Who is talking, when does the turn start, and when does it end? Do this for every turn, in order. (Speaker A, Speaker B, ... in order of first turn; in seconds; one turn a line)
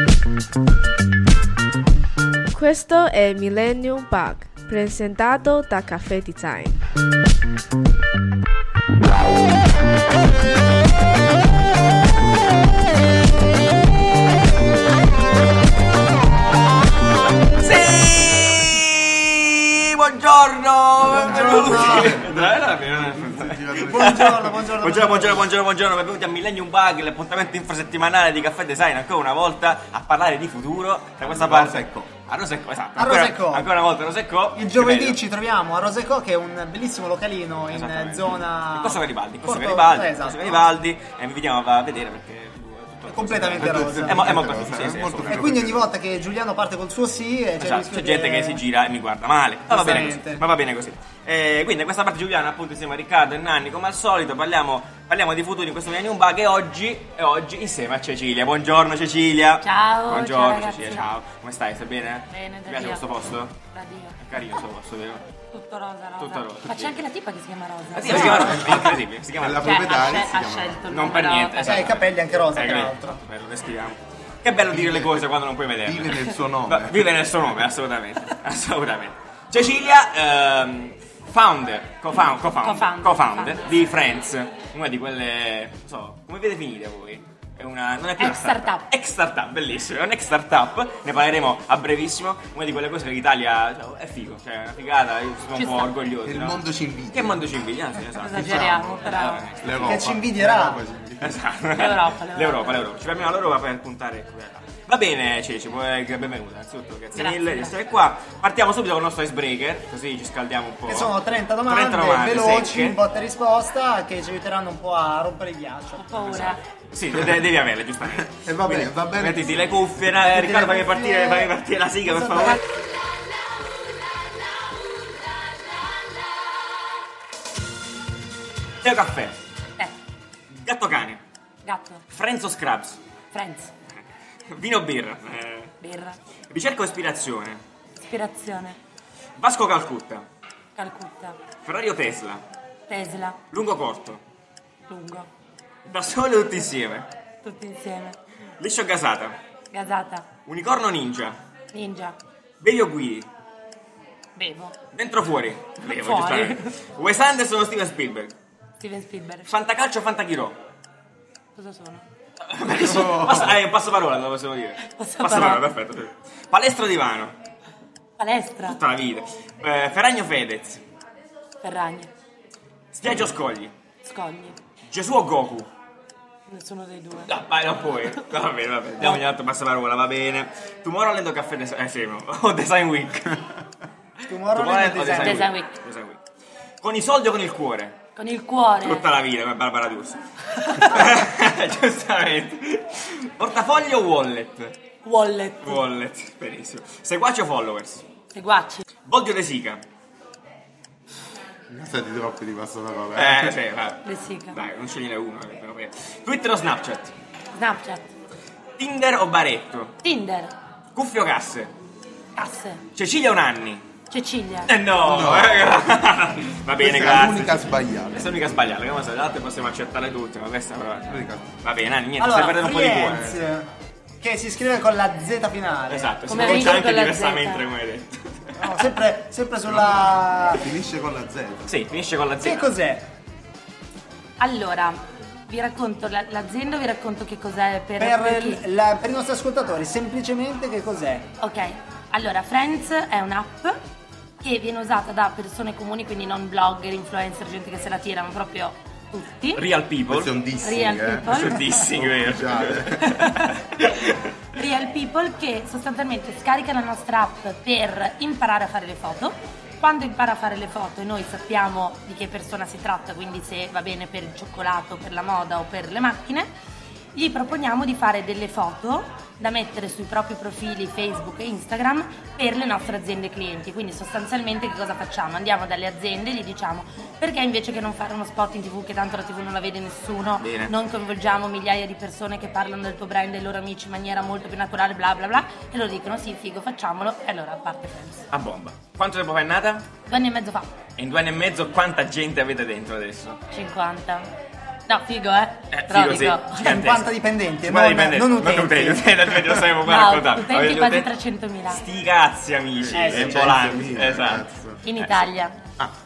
Speaker A: 2.5-6.8
Speaker B: 17.6-35.2
Speaker C: 21.0-22.2
Speaker D: 21.1-24.4
Speaker C: 23.8-25.5
Speaker D: 31.2-32.1
Speaker C: 33.0-33.7
Speaker C: 34.5-40.7
Speaker B: 37.7-45.6
Speaker C: 43.1-44.4
Speaker D: 43.6-45.9
Speaker C: 45.3-48.6
Speaker B: 47.6-63.6
Speaker C: 49.7-50.4
Speaker E: 59.6-61.1
Speaker E: 62.3-63.0
Speaker E: 63.7-64.2
Speaker B: 64.2-65.2
Speaker E: 65.5-68.7
Speaker B: 66.2-67.0
Speaker B: 67.9-70.0
Speaker D: 68.0-70.8
Speaker E: 69.6-71.7
Speaker B: 70.9-100.0
Speaker C: 71.6-73.2
Speaker D: 74.7-75.2
Speaker D: 75.8-77.2
Speaker E: 82.6-83.8
Speaker E: 88.2-88.9
Speaker E: 95.5-95.9
Speaker D: 96.2-97.4
Speaker E: 98.2-99.4
Speaker D: 98.3-99.1
Speaker D: 99.6-101.5
Speaker C: 99.8-100.8
Speaker B: 101.2-111.1
Speaker E: 101.7-102.9
Speaker E: 107.1-107.7
Speaker C: 110.8-116.5
Speaker B: 111.7-113.0
Speaker E: 116.0-116.6
Speaker B: 116.9-122.6
Speaker D: 118.4-120.1
Speaker C: 120.4-121.5
Speaker B: 128.8-129.4
Speaker B: 130.5-131.2
Speaker E: 131.6-132.0
Speaker B: 132.1-133.0
Speaker E: 133.3-133.7
Speaker B: 134.5-135.7
Speaker E: 135.8-136.2
Speaker B: 136.5-137.6
Speaker E: 138.0-138.8
Speaker B: 139.4-140.2
Speaker E: 140.8-141.4
Speaker B: 141.6-142.4
Speaker E: 142.9-143.4
Speaker B: 143.5-144.2
Speaker E: 144.9-145.3
Speaker B: 145.9-147.1
Speaker E: 147.4-148.2
Speaker B: 148.6-149.4
Speaker E: 149.7-150.3
Speaker B: 150.4-151.4
Speaker E: 151.7-152.2
Speaker B: 152.6-153.3
Speaker E: 154.3-154.8
Speaker B: 154.9-158.3
Speaker E: 155.8-156.7
Speaker E: 158.8-159.5
Speaker B: 159.5-160.6
Speaker E: 161.6-162.0
Speaker B: 162.5-167.3
Speaker D: 162.6-163.6
Speaker E: 164.9-165.6
Speaker E: 168.2-168.8
Speaker B: 168.7-170.8
Speaker E: 171.6-172.1
Speaker B: 172.9-173.7
Speaker E: 174.0-174.6
Speaker B: 174.9-175.7
Speaker E: 176.5-177.3
Speaker B: 177.3-183.5
Speaker C: 184.3-185.5
Speaker B: 184.3-186.2
Speaker E: 185.2-185.8
Speaker B: 186.8-188.0
Speaker E: 188.2-189.1
Speaker B: 188.8-194.7
Speaker E: 190.6-191.0
Speaker E: 195.0-195.8
Speaker B: 195.6-198.1
Speaker E: 198.3-198.8
Speaker B: 199.1-199.8
Speaker D: 201.7-203.6
Speaker B: 203.1-207.1
Speaker E: 204.0-204.6
Speaker E: 207.5-208.1
Speaker B: 208.8-209.9
Speaker E: 210.0-210.5
Speaker B: 210.9-211.7
Speaker E: 212.3-212.8
Speaker B: 212.9-213.8
Speaker E: 214.1-214.7
Speaker B: 214.7-223.4
Speaker D: 215.0-215.8
Speaker D: 216.8-218.6
Speaker D: 221.1-221.5
Speaker C: 222.2-223.7
Speaker C: 224.2-226.8
Speaker B: 225.9-228.9
Speaker E: 226.3-227.7
Speaker C: 228.6-230.7
Speaker D: 229.7-231.8
Speaker B: 231.7-232.7
Speaker C: 232.4-233.1
Speaker E: 234.4-238.6
Speaker C: 238.0-241.3
Speaker E: 241.4-243.8
Speaker E: 244.4-249.6
Speaker B: 249.5-250.3
Speaker D: 250.1-253.4
Speaker E: 250.6-251.7
Speaker B: 251.2-254.2
Speaker E: 253.0-253.5
Speaker E: 254.5-266.5
Speaker E: 267.1-288.3
Speaker B: 280.4-280.7
Speaker B: 288.3-289.9
Speaker E: 290.1-290.7
Speaker B: 291.0-293.4
Speaker E: 293.5-294.3
Speaker E: 294.9-296.7
Speaker B: 295.7-297.1
Speaker C: 296.6-299.2
Speaker B: 297.6-301.1
Speaker E: 299.8-301.8
Speaker B: 301.6-304.5
Speaker D: 302.8-304.8
Speaker C: 302.9-303.6
Speaker E: 304.8-305.6